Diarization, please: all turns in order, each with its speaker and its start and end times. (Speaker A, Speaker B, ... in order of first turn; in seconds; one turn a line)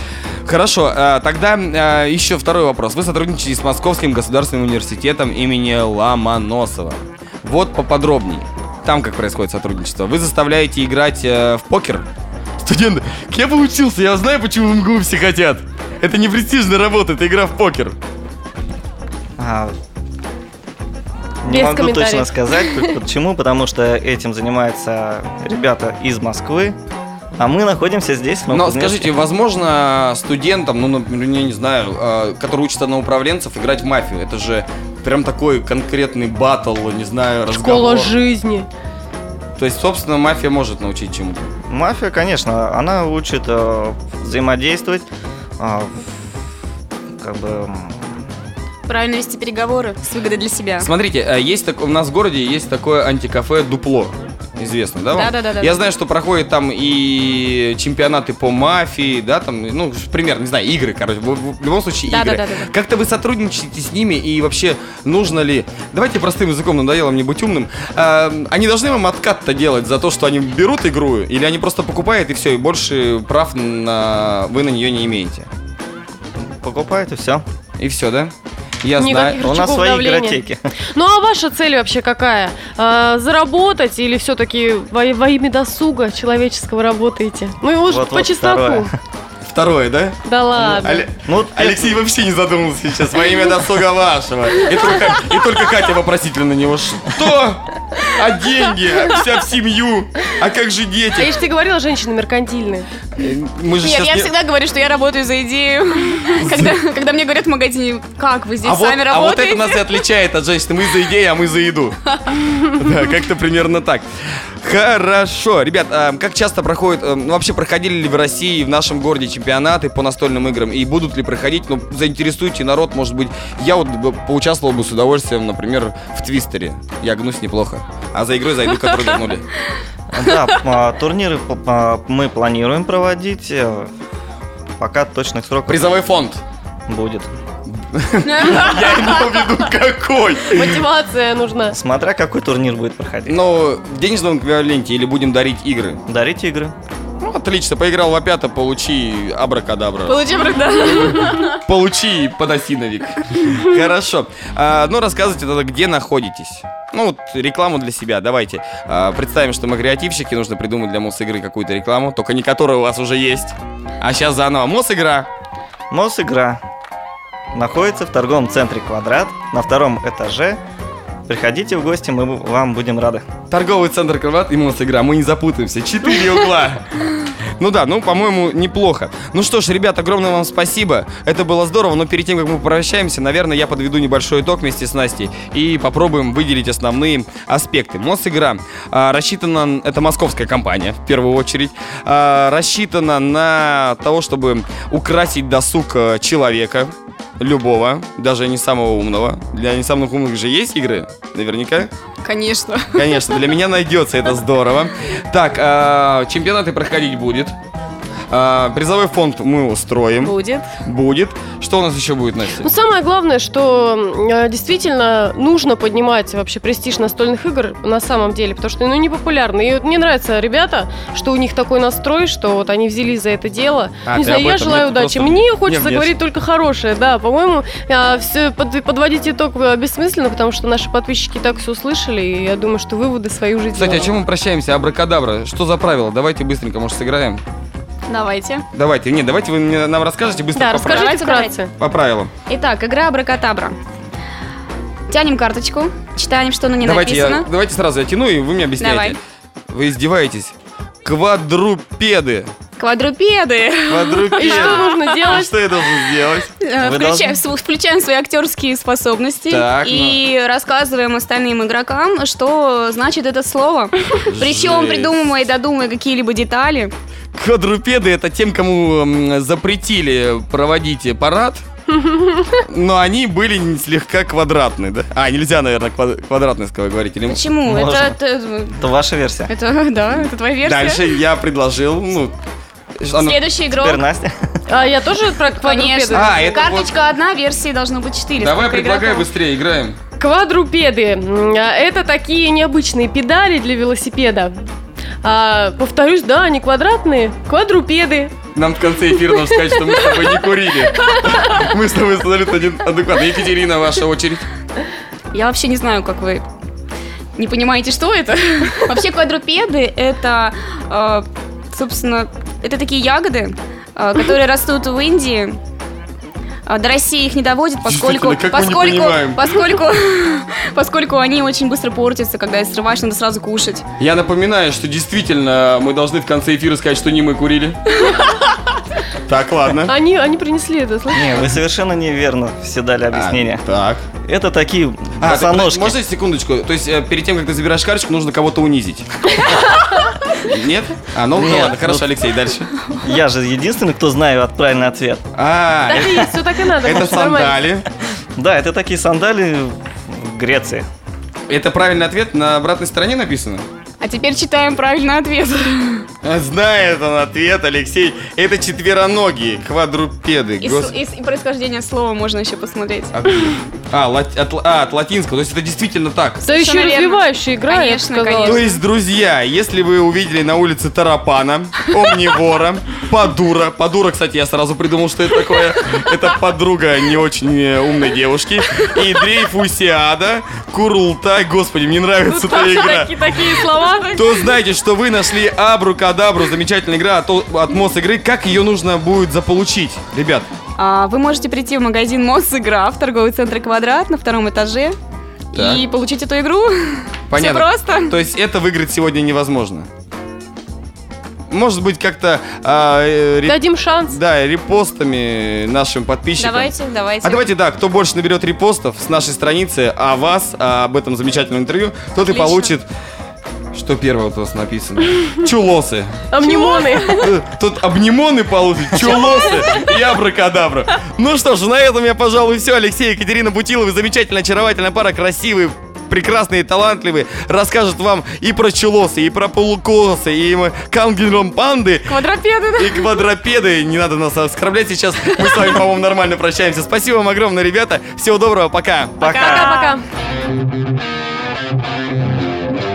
Speaker A: 0.5-12.1
Speaker A: 12.6-18.0
Speaker B: 19.4-19.8
Speaker B: 21.4-26.8
Speaker C: 21.5-23.0
Speaker B: 27.4-29.1
Speaker A: 28.5-38.1
Speaker C: 37.5-38.7
Speaker A: 39.6-41.5
Speaker B: 41.7-45.1
Speaker B: 45.6-46.3
Speaker B: 47.2-48.1
Speaker D: 48.9-50.9
Speaker A: 50.8-75.5
Speaker D: 55.1-55.8
Speaker D: 62.1-62.7
Speaker B: 76.4-77.5
Speaker A: 77.8-79.5
Speaker C: 79.0-80.4
Speaker B: 79.3-80.7
Speaker C: 80.9-88.9
Speaker B: 87.8-88.9
Speaker A: 89.5-101.3
Speaker C: 90.2-91.1
Speaker B: 90.6-92.0
Speaker C: 101.2-102.9
Speaker A: 103.2-104.3
Speaker D: 103.8-110.0
Speaker A: 106.4-106.7
Speaker A: 108.6-114.1
Speaker A: 114.6-129.5
Speaker B: 130.1-133.9
Speaker B: 134.8-135.9
Speaker A: 135.7-136.4
Speaker B: 136.9-137.3
Speaker A: 137.7-140.8
Speaker D: 138.2-139.5
Speaker C: 140.5-141.8
Speaker B: 141.7-143.4
Speaker A: 143.3-146.0
Speaker B: 146.1-146.8
Speaker A: 147.2-165.3
Speaker D: 150.1-151.6
Speaker B: 165.9-166.6
Speaker B: 167.5-170.6
Speaker B: 171.3-173.2
Speaker A: 173.5-176.9
Speaker A: 177.6-201.9
Speaker D: 202.2-203.4
Speaker A: 202.9-207.5
Speaker A: 208.3-212.7
Speaker D: 210.2-210.7
Speaker C: 212.6-234.1
Speaker A: 224.1-226.1
Speaker A: 233.8-237.4
Speaker D: 238.1-238.7
Speaker A: 238.7-241.1
Speaker C: 240.5-241.7
Speaker D: 240.8-241.5
Speaker A: 241.8-242.3
Speaker D: 242.5-243.8
Speaker D: 245.1-247.5
Speaker A: 246.8-249.2
Speaker D: 248.8-249.2
Speaker A: 249.7-252.5
Speaker D: 252.8-255.4
Speaker A: 253.9-256.5
Speaker C: 254.3-255.5
Speaker D: 256.6-266.9
Speaker B: 256.8-257.4
Speaker A: 259.5-260.2
Speaker A: 264.3-265.2
Speaker A: 267.3-271.6
Speaker C: 271.9-272.6
Speaker A: 272.7-277.9
Speaker D: 277.3-278.8
Speaker B: 277.6-278.2
Speaker B: 278.7-279.5
Speaker D: 279.5-281.2
Speaker A: 280.6-282.3
Speaker A: 283.0-283.4
Speaker D: 283.2-284.0
Speaker B: 283.7-284.6
Speaker C: 284.7-286.6
Speaker D: 285.6-289.3
Speaker A: 286.1-286.9
Speaker A: 288.4-290.0
Speaker C: 290.2-294.5
Speaker C: 295.2-298.3
Speaker A: 298.5-304.5
Speaker D: 305.3-306.4
Speaker D: 307.4-315.6
Speaker D: 316.7-323.9
Speaker A: 317.9-319.4
Speaker A: 324.0-328.1
Speaker A: 329.2-329.9
Speaker C: 329.9-331.3
Speaker B: 331.1-333.6
Speaker A: 333.1-334.0
Speaker B: 334.2-336.0
Speaker A: 335.2-342.7
Speaker B: 341.3-342.1
Speaker B: 343.0-345.3
Speaker A: 345.4-347.8
Speaker C: 345.9-347.6
Speaker B: 348.4-350.9
Speaker A: 351.5-353.6
Speaker D: 354.0-356.1
Speaker A: 356.2-360.9
Speaker D: 360.6-363.1
Speaker A: 363.2-366.4
Speaker C: 366.4-368.7
Speaker D: 366.4-368.8
Speaker A: 368.4-383.2
Speaker C: 382.2-384.2
Speaker D: 383.6-384.5
Speaker A: 384.1-390.5
Speaker D: 390.8-395.0
Speaker D: 395.5-398.2
Speaker A: 395.5-395.8
Speaker A: 397.3-399.9
Speaker A: 401.5-406.7
Speaker C: 403.5-404.2
Speaker D: 406.4-407.5
Speaker A: 407.2-412.9
Speaker D: 412.2-412.8
Speaker A: 413.7-416.2
Speaker C: 416.3-417.3
Speaker A: 416.9-432.1
Speaker D: 432.1-433.2
Speaker A: 432.8-439.3
Speaker B: 439.2-439.7
Speaker D: 439.2-440.0
Speaker C: 439.3-440.0